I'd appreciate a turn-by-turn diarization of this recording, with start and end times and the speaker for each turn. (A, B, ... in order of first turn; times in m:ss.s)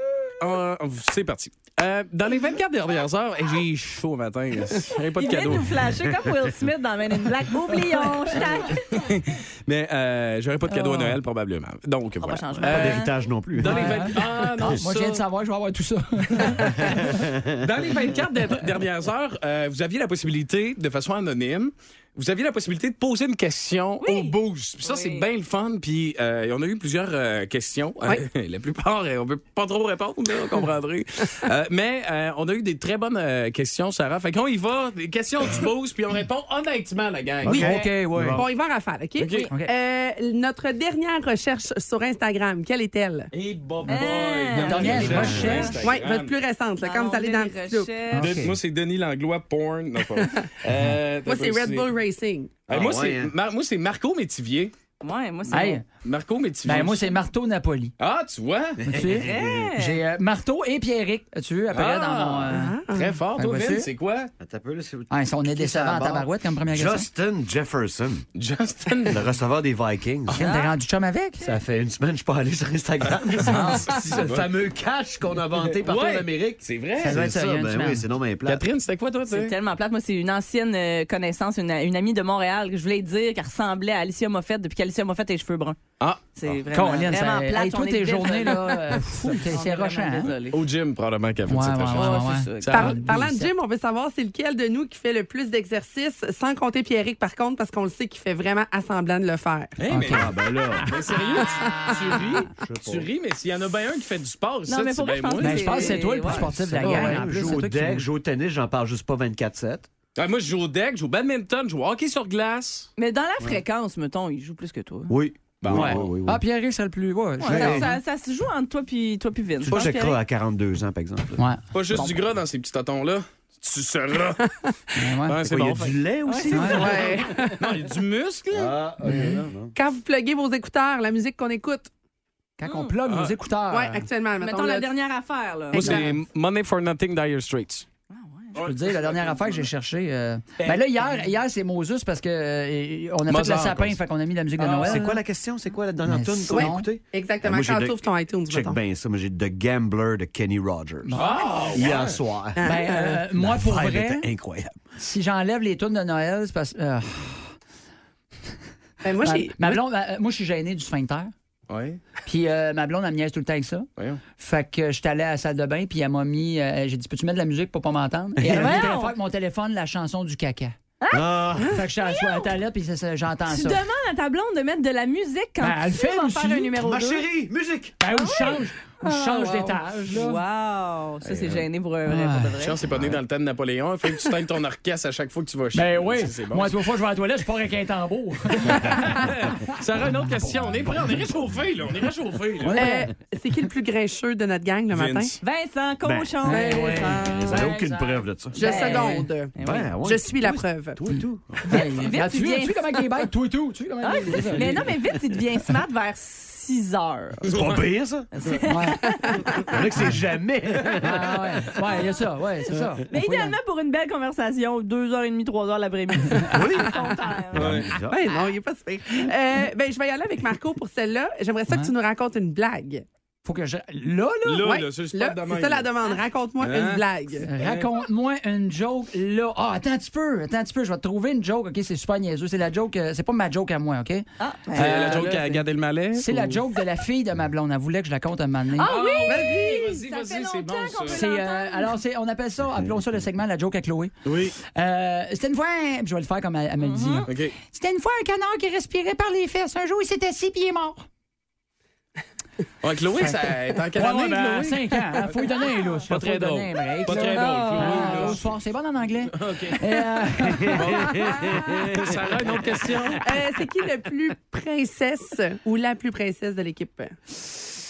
0:00.4-0:05.9 A
0:05.2-0:08.8 B
0:08.8-0:13.0 A
0:10.7-0:11.0 C
0:12.2-0:13.2 B
0:12.6-0:14.8 D
0:13.5-0:15.2 A
0:13.6-0:17.2 C
0:16.3-0:16.7 A
0:17.0-0:17.6 D
0:17.6-0:37.8 A
0:24.0-0:25.3 B
0:37.4-0:38.4 D
0:37.4-0:38.5 C
0:38.3-0:43.3 E
0:39.2-0:39.5 A
0:43.3-0:46.3 A
0:43.9-0:45.7 B
0:44.6-0:45.8 C
0:45.0-0:45.4 D
0:45.8-0:47.9 E
0:46.8-0:48.3 B
0:48.1-0:48.6 C
0:48.2-0:51.9 A
0:51.2-0:52.6 E
0:52.7-0:54.7 A
0:52.7-0:53.3 D
0:55.0-0:55.8 B
0:55.5-0:55.8 C
0:56.0-0:57.0 A
0:56.6-0:57.9 C
0:58.0-0:58.9 A
0:58.8-1:02.8 C
0:58.9-0:59.3 D
0:59.0-1:00.0 B
1:01.7-1:04.3 A
1:02.5-1:03.2 E
1:03.4-1:03.9 C
1:04.4-1:08.2 D
1:05.1-1:07.1 C
1:08.4-1:09.2 A
1:09.1-1:10.4 D
1:10.3-1:11.4 C
1:10.4-1:10.7 B
1:11.4-1:18.6 D
1:13.1-1:14.4 A
1:13.5-1:14.2 C
1:15.8-1:17.2 A
1:17.0-1:18.0 C
1:18.4-1:19.5 A
1:19.3-1:25.8 B
1:26.0-1:26.2 A
1:26.3-1:30.6 B
1:26.7-1:30.3 C
1:30.5-1:32.9 A
1:31.4-1:33.5 C
1:31.9-1:33.0 B
1:32.7-1:39.8 E
1:39.8-1:46.1 A
1:39.9-1:40.3 C
1:40.0-1:41.0 D
1:41.4-1:42.0 E
1:42.4-1:43.1 D
1:44.7-1:47.1 B
1:45.4-1:48.0 C
1:46.2-1:49.9 D
1:46.8-1:47.2 A
1:50.2-1:52.9 A
1:53.0-1:55.1 B
1:55.1-1:56.4 D
1:55.6-1:56.1 A
1:55.7-1:57.9 C
1:57.4-2:00.2 B
1:57.4-1:57.9 D
1:59.6-2:01.4 D
2:01.4-2:02.1 C
2:01.7-2:04.6 A
2:04.9-2:05.4 C
2:05.2-2:06.0 A
2:05.4-2:07.4 D
2:06.2-2:06.9 B
2:06.5-2:06.9 C
2:06.7-2:07.6 E
2:07.6-2:09.5 A
2:08.5-2:09.7 D
2:09.0-2:09.4 C
2:09.7-2:11.9 E
2:12.6-2:14.1 C
2:12.6-2:12.9 B
2:13.0-2:13.4 A
2:13.7-2:14.9 E
2:14.4-2:16.0 B
2:15.7-2:16.1 E
2:15.7-2:17.9 A
2:18.1-2:18.5 B
2:18.5-2:19.7 A
2:18.6-2:25.2 C
2:23.3-2:24.0 A
2:24.6-2:25.0 A
2:24.6-2:31.2 D
2:26.0-2:26.9 C
2:26.5-2:28.8 E
2:31.0-2:31.5 C
2:31.2-2:32.2 A
2:31.7-2:34.8 D
2:32.6-2:33.2 E
2:32.6-2:34.3 C
2:35.0-2:37.5 C
2:39.0-2:39.8 E
2:39.2-2:41.3 C
2:41.7-2:42.0 A
2:42.2-2:50.8 C
2:48.4-2:48.9 D
2:48.4-2:49.1 B
2:51.0-2:51.2 B
2:51.1-2:51.8 D
2:51.7-2:53.8 C
2:52.0-2:52.5 B
2:53.5-2:57.3 B
2:55.6-2:56.8 C
2:56.8-2:58.0 D
2:58.0-3:00.4 C
2:58.1-3:02.8 B
3:01.2-3:01.6 A
3:02.0-3:02.6 C
3:02.6-3:06.8 A
3:05.7-3:09.3 C
3:08.6-3:12.8 A
3:12.6-3:13.1 C
3:12.7-3:15.4 E
3:14.9-3:15.4 A
3:15.4-3:17.8 B
3:16.0-3:18.6 D
3:16.4-3:19.2 C
3:16.5-3:17.2 E
3:18.5-3:21.0 E
3:18.6-3:19.9 B
3:19.6-3:21.6 D
3:21.1-3:24.9 C
3:21.7-3:23.2 B
3:24.0-3:27.5 B
3:27.4-3:28.3 D
3:27.5-3:27.8 A
3:28.3-3:29.6 B
3:28.7-3:29.2 C
3:29.6-3:31.7 D
3:31.0-3:33.6 C
3:33.1-3:37.6 B
3:36.5-3:36.9 D
3:37.5-3:38.2 D
3:37.5-3:37.9 A
3:38.1-3:43.0 E
3:43.4-3:44.7 C
3:44.4-3:45.9 A
3:44.6-3:47.5 E
3:46.6-3:47.9 A
3:47.4-3:55.4 C
3:54.4-3:55.6 B
3:54.7-3:56.6 A
3:56.1-3:59.3 C
3:58.7-4:01.9 B
3:58.8-4:01.2 A
4:01.1-4:04.1 C
4:04.2-4:04.6 A
4:04.7-4:11.0 C
4:06.8-4:07.3 B
4:07.3-4:07.6 A
4:12.8-4:15.3 A
4:13.9-4:21.2 C
4:16.1-4:18.5 A
4:17.4-4:18.3 B
4:19.3-4:20.1 A
4:20.7-4:22.2 D
4:20.7-4:23.4 A
4:23.2-4:27.2 E